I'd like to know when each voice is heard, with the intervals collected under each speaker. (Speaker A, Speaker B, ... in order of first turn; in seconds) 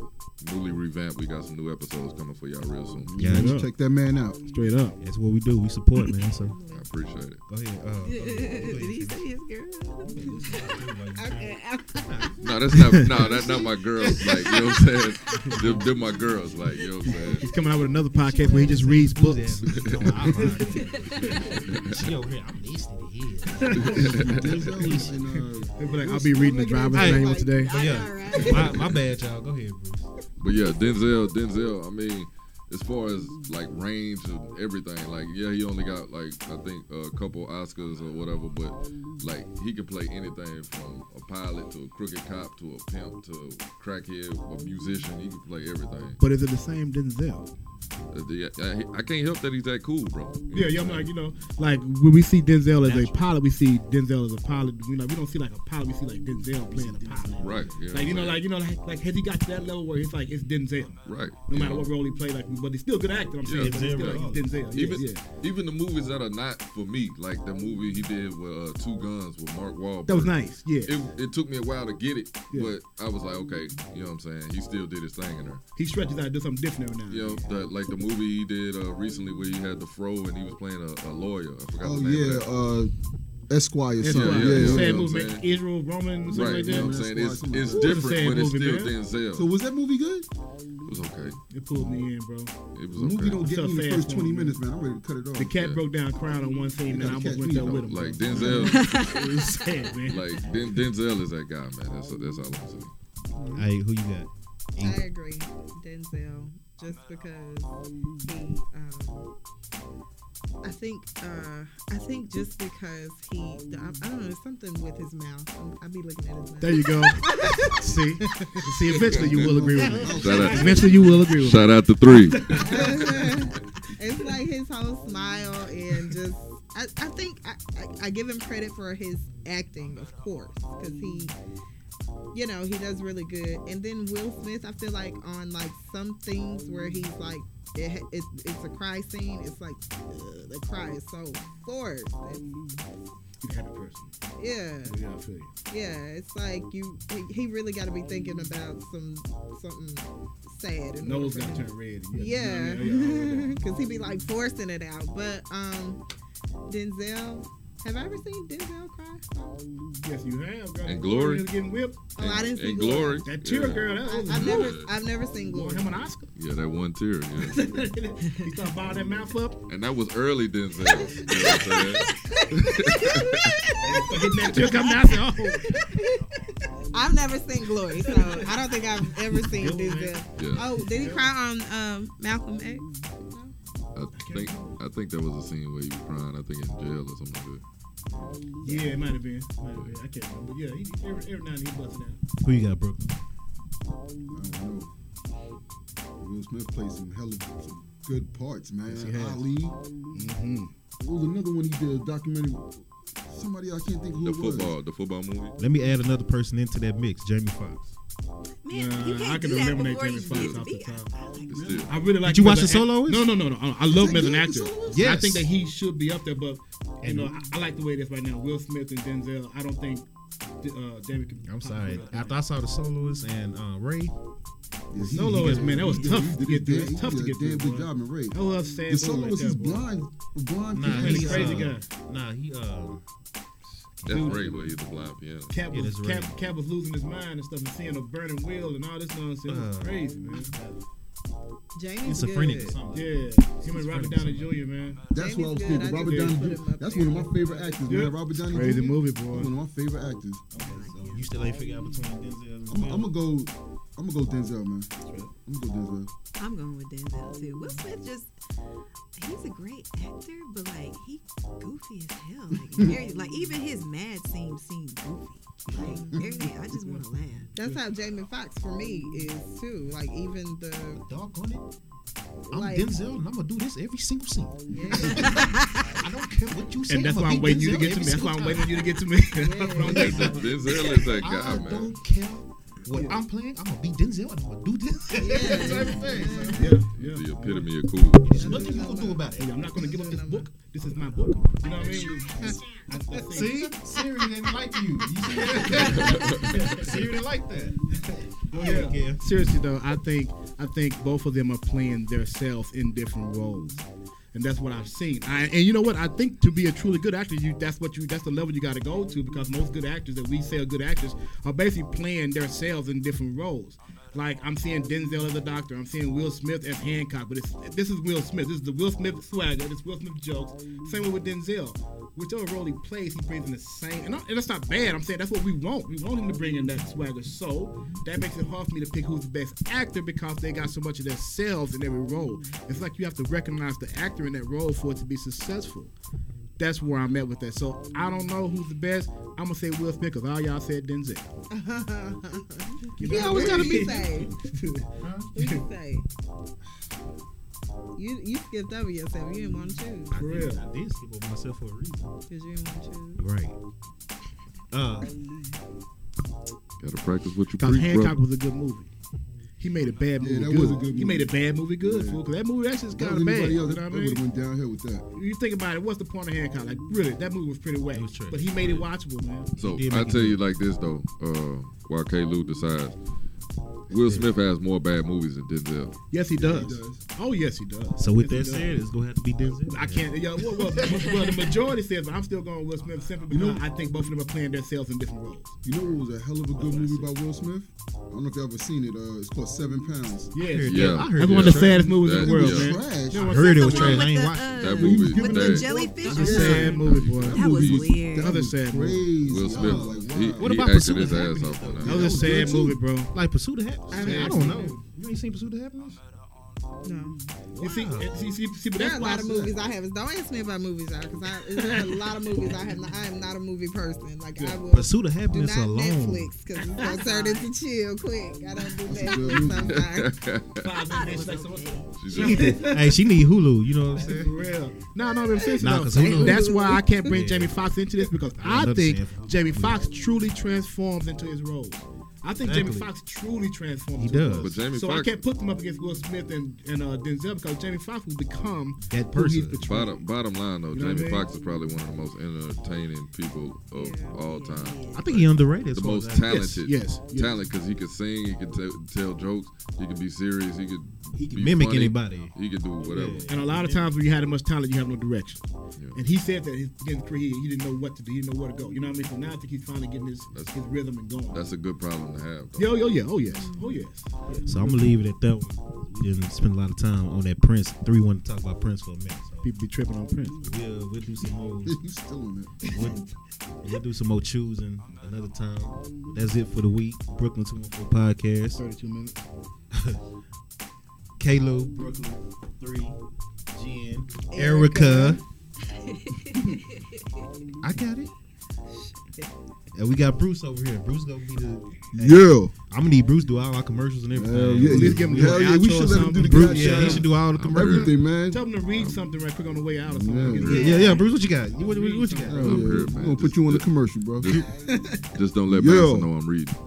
Speaker A: 0.4-3.2, 6.7-7.4, 12.4-17.5, 21.6-22.1, 23.8-24.7, 30.4-46.2, 48.1-51.1, 57.4-58.4, 61.0-61.9, 63.4-75.6, 77.1-82.5, 84.0-85.5, 86.3-89.5, 90.9-91.4, 92.7-93.4, 95.5-95.8, 97.0-98.9, 100.1-102.9, 119.0-119.6, 120.1-123.4, 160.9-161.5, 162.2-164.9, 166.4-167.6, 169.7-173.7, 174.4-174.9, 180.4-180.8, 183.9-187.6, 189.7-190.0, 204.2-205.6, 210.3-210.7, 211.5-211.9, 234.1-235.6, 279.9-281.9, 286.9-288.4, 295.8-296.6, 356.8-358.2, 369.6-373.0, 373.9-376.0, 390.7-392.8, 394.4-395.8, 396.6-397.9, 399.3-402.1, 419.6-420.7, 422.0-422.6, 434.4-435.2, 439.6-453.4, 460.3-460.6, 461.3-462.8, 497.1-498.1, 500.4-500.7, 502.4-506.6
Speaker B: 3.0-4.4, 24.0-26.9, 81.8-82.9, 83.5-85.1, 86.3-88.1, 89.3-90.3, 91.7-92.0, 92.9-95.6, 96.9-99.6, 103.4-103.7, 119.1-121.0, 194.3-194.9, 196.2-199.8, 201.0-204.8, 211.5-211.9, 213.8-215.1, 224.9-231.7, 245.1-250.4, 252.7-254.9, 255.4-256.1, 265.7-266.3, 360.2-362.2, 362.9-365.1, 376.3-377.0, 383.3-383.6, 385.6-390.3, 392.1-393.4, 394.8-400.5, 402.1-402.8, 409.1-409.5, 418.9-419.9, 471.6-472.6, 491.9-492.5, 494.1-498.9, 499.9-500.7, 502.2-504.4, 505.5-506.1
Speaker C: 3.2-3.6, 5.0-6.6, 7.5-9.2, 10.1-12.8, 14.0-14.4, 15.6-15.8, 18.4-25.4, 26.9-30.1, 52.8-53.2, 56.7-57.8, 63.5-64.7, 103.5-105.0, 118.2-118.7, 119.6-121.3, 192.4-193.2, 205.6-207.9, 212.2-213.3, 214.9-215.5, 217.0-217.5, 221.5-224.1, 225.0-225.9, 230.7-233.0, 233.8-234.8, 235.7-236.4, 239.5-240.8, 242.1-244.6, 250.5-253.1, 271.0-271.7, 272.5-279.0, 279.8-286.8, 288.2-289.9, 290.9-292.5, 293.3-299.2, 343.0-344.3, 345.0-345.3, 350.1-352.1, 353.2-353.6, 354.7-355.2, 367.9-368.9, 369.5-370.4, 373.9-374.3, 378.0-381.0, 390.4-392.0, 393.1-395.1, 396.1-396.7, 399.5-406.0, 407.5-408.1, 414.7-416.4, 422.1-424.5, 425.6-427.6, 428.4-429.9, 432.4-432.9, 434.0-434.6, 438.8-439.6, 444.9-446.7, 451.2-453.9, 464.4-469.5, 470.4-471.8, 472.6-473.0, 473.6-478.6, 479.7-480.0, 481.2-483.0, 483.5-485.2, 487.6-488.1, 489.7-498.0, 500.4-502.8
Speaker D: 3.2-3.7, 4.5-5.0, 15.4-15.8, 17.1-21.3, 23.6-25.1, 25.8-27.7, 46.2-47.5, 50.5-65.2, 70.1-71.0, 75.8-77.5, 84.0-87.0, 87.7-89.0, 91.5-92.5, 93.4-94.6, 95.4-100.5, 116.6-123.4, 143.4-144.1, 144.9-145.5, 151.0-153.7, 160.0-162.0, 163.2-164.8, 165.5-166.3, 167.4-169.6, 173.8-175.7, 178.0-178.5, 179.2-181.3, 184.2-184.8, 188.6-192.2, 198.9-199.4, 200.1-200.7, 208.7-211.1, 211.9-220.1, 220.6-222.4, 225.0-229.9, 230.8-231.9, 234.1-234.5, 235.5-240.6, 242.9-245.0, 245.7-246.5, 247.8-249.5, 255.1-255.3, 276.9-281.0, 282.9-283.2, 286.5-287.7, 288.4-288.7, 289.4-293.7, 296.5-297.1, 298.5-335.9, 336.6-341.3, 343.0-345.6, 350.2-350.6, 357.6-358.9, 359.6-364.2, 365.1-369.5, 376.1-378.7, 379.7-385.6, 386.6-387.1, 390.4-394.1, 395.9-397.5, 398.2-399.1, 399.6-399.9, 401.8-403.1, 403.9-404.8, 407.6-409.5, 411.6-412.1, 420.6-423.0, 424.0-440.1, 440.7-441.3, 446.3-447.4, 453.3-461.4, 462.6-465.0, 469.4-470.5, 478.6-479.2, 494.6-497.1, 498.3-502.6, 504.5-505.0
Speaker E: 6.4-6.8, 11.2-12.3, 26.3-28.9, 104.8-109.3, 110.6-117.9, 122.5-131.3, 132.3-142.8, 144.4-145.0, 145.7-156.0, 156.7-159.6, 162.2-163.3, 164.1-165.9, 170.8-183.5, 241.8-242.8, 245.1-247.7, 265.8-266.2, 267.6-271.0, 272.5-272.9, 274.7-275.5, 279.4-280.4, 285.1-286.8, 288.3-290.5, 341.5-344.3, 345.3-346.1, 347.9-350.2, 352.3-353.2, 403.9-404.8, 406.8-407.2, 408.8-420.1, 426.1-426.9, 443.8-444.2, 484.3-485.2, 488.8-489.3
Speaker F: 8.0-10.8, 20.7-21.6, 27.5-29.0, 98.7-100.1, 170.9-172.4, 174.7-176.0, 208.6-211.9, 225.8-226.2, 250.6-252.0, 256.4-258.3, 259.2-267.5, 275.1-276.0, 393.1-398.4, 416.8-417.5, 419.1-419.4, 420.8-422.7, 443.8-445.1, 463.4-463.8, 485.7-487.1, 500.5-501.1